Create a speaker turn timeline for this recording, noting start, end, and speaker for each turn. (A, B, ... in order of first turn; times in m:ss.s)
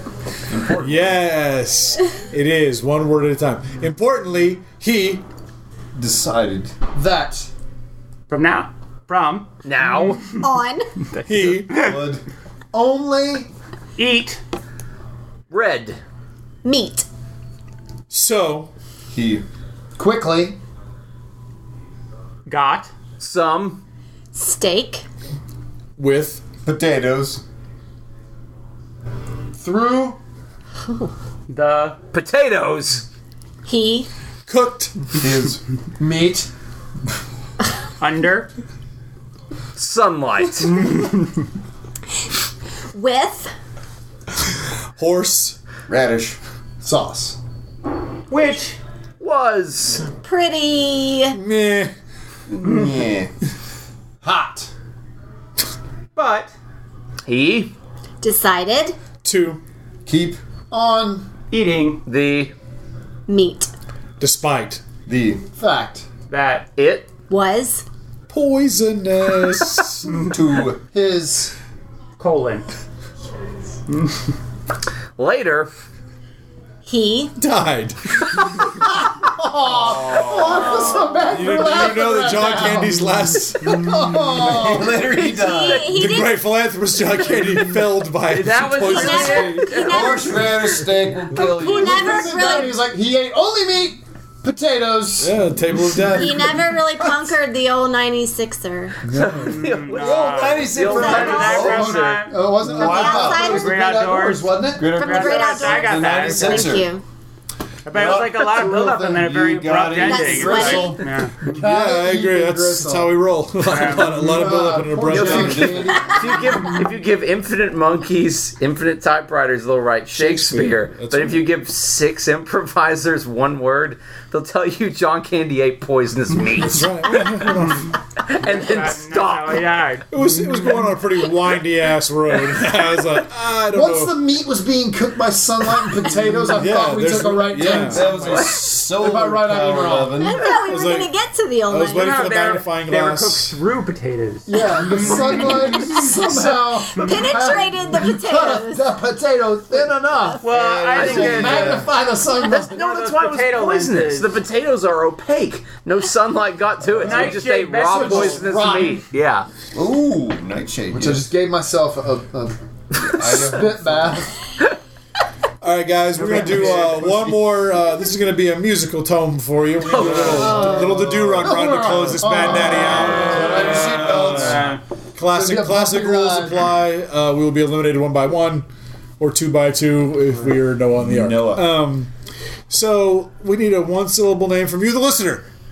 0:00.5-0:01.2 A
0:00.8-0:05.2 B
0:06.0-0:06.7 A
0:06.9-0:07.5 C
0:08.3-0:10.2 D
0:09.6-0:10.2 E
0:10.4-0:10.9 F
0:11.2-0:11.9 B
0:11.7-0:12.0 D
0:11.7-0:12.2 A
0:12.7-0:13.5 C
0:14.0-0:14.4 D
0:15.5-0:16.0 E
0:16.6-0:17.0 F
0:18.1-0:18.7 B
0:19.1-0:19.4 A
0:20.0-0:20.6 C
0:22.5-0:22.9 D
0:23.2-0:23.8 E
0:24.3-0:25.0 F
0:26.0-0:26.4 B
0:26.6-0:27.4 A
0:29.6-0:30.2 C
0:30.8-0:31.1 F
0:31.5-0:32.0 D
0:32.1-0:33.0 E
0:33.6-0:34.1 F
0:34.5-0:35.0 B
0:35.1-0:35.6 A
0:36.0-0:36.5 C
0:38.0-0:38.5 D
0:39.8-0:40.8 E
0:42.9-0:43.5 F
0:44.5-0:45.6 B
0:45.9-0:46.4 A
0:46.8-0:47.4 C
0:48.3-0:48.8 D
0:49.2-0:50.0 E
0:50.2-0:51.4 F
0:51.3-0:51.9 B
0:52.6-0:53.3 A
0:54.2-0:54.7 C
0:56.1-0:56.5 D
0:57.2-0:57.7 E
0:58.2-0:59.0 F
0:59.2-0:59.6 B
1:00.0-1:00.4 A
1:00.7-1:01.3 C
1:01.5-1:02.0 D
1:02.0-1:02.5 E
1:03.3-1:03.7 F
1:04.2-1:04.8 B
1:05.1-1:05.5 A
1:05.5-1:06.0 C
1:06.3-1:06.7 D
1:06.8-1:07.1 E
1:07.3-1:07.8 F
1:08.3-1:10.1 B
1:10.1-1:10.8 A
1:10.9-1:11.5 C
1:12.2-1:12.7 D
1:15.2-1:15.7 E
1:16.9-1:17.3 F
1:17.4-1:18.2 B
1:19.2-1:25.0 C
1:19.8-1:20.8 A
1:19.9-1:20.7 E
1:21.3-1:23.8 B
1:24.3-1:25.9 A
1:25.1-1:25.9 E
1:25.1-1:26.4 F
1:25.9-1:29.6 B
1:28.3-1:30.1 E
1:28.8-1:30.7 F
1:29.1-1:29.8 D
1:29.7-1:32.5 A
1:31.3-1:32.8 F
1:31.5-1:35.4 C
1:35.2-1:36.6 B
1:36.0-1:39.0 F
1:39.0-1:39.6 B
1:39.1-1:42.2 E
1:39.4-1:46.8 D
1:39.9-1:42.0 A
1:40.9-1:41.4 F
1:41.3-1:45.0 C
1:42.6-1:43.2 B
1:42.6-1:43.8 F
1:44.7-1:46.9 A
1:44.9-1:47.0 F
1:47.8-1:51.5 D
1:47.9-1:51.0 A
1:48.3-1:49.2 C
1:49.9-1:51.0 F
1:51.4-1:53.2 C
1:51.5-1:56.0 B
1:53.6-1:54.1 D
1:53.8-1:56.4 C
1:55.0-2:07.5 E
1:55.1-1:55.6 A
1:55.9-1:56.4 F
2:00.1-2:01.4 B
2:06.6-2:07.9 B
2:08.2-2:09.7 E
2:08.4-2:10.7 D
2:10.1-2:14.2 B
2:13.7-2:20.2 C
2:16.5-2:18.4 B
2:17.6-2:20.6 A
2:20.2-2:22.1 F
2:20.6-2:21.1 B
2:21.7-2:23.6 B
2:21.9-2:26.0 D
2:24.5-2:32.8 C
2:26.9-2:28.9 F
2:29.7-2:30.4 F
2:30.4-2:31.8 D
2:30.4-2:31.9 A
2:30.9-2:31.8 E
2:32.4-2:39.5 E
2:32.5-2:34.3 D
2:37.0-2:38.5 D
2:37.2-2:39.0 C
2:39.7-2:41.3 A
2:40.9-2:42.6 C
2:43.0-2:44.2 A
2:43.2-2:44.3 C
2:45.6-2:58.7 B
2:46.2-2:47.3 A
2:49.8-2:50.7 E
2:50.0-2:54.6 C
2:50.1-2:50.7 A
2:50.7-2:51.0 F
2:52.6-2:54.8 A
2:54.4-2:54.8 D
2:55.3-2:56.7 C
2:59.2-3:02.1 B
3:01.0-3:01.6 A
3:02.7-3:05.5 B